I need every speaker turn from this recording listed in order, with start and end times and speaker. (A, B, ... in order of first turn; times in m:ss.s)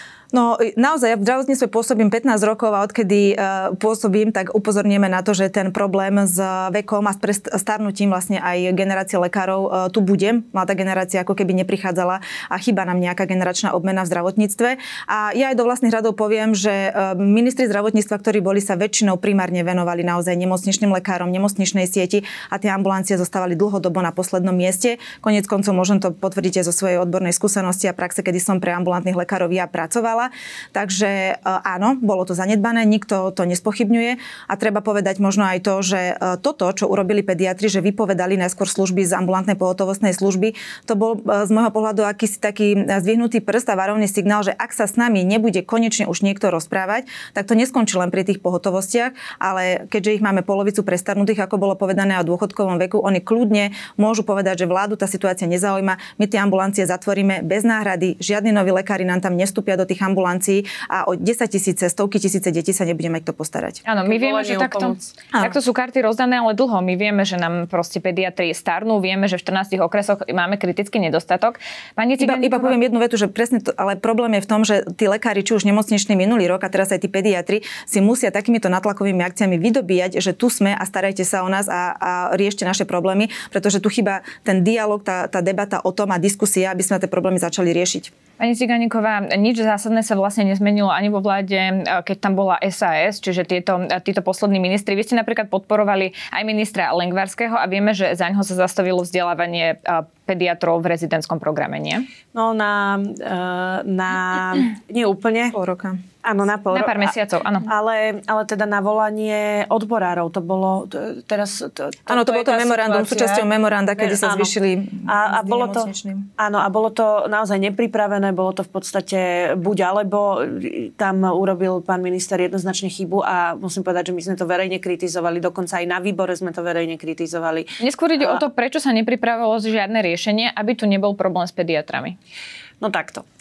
0:00.3-1:03.8 A
1:03.8-1:12.7 B
1:04.0-1:05.1 C
1:12.2-1:28.1 A
1:28.4-1:42.0 B
1:42.3-1:45.6 C
1:45.5-1:46.0 A
1:46.2-1:47.1 C
1:46.7-1:47.7 B
1:47.6-1:53.5 C
1:52.1-1:56.3 A
1:54.0-1:54.5 C
1:55.0-2:08.4 C
2:07.8-2:12.2 B
2:12.8-2:13.2 C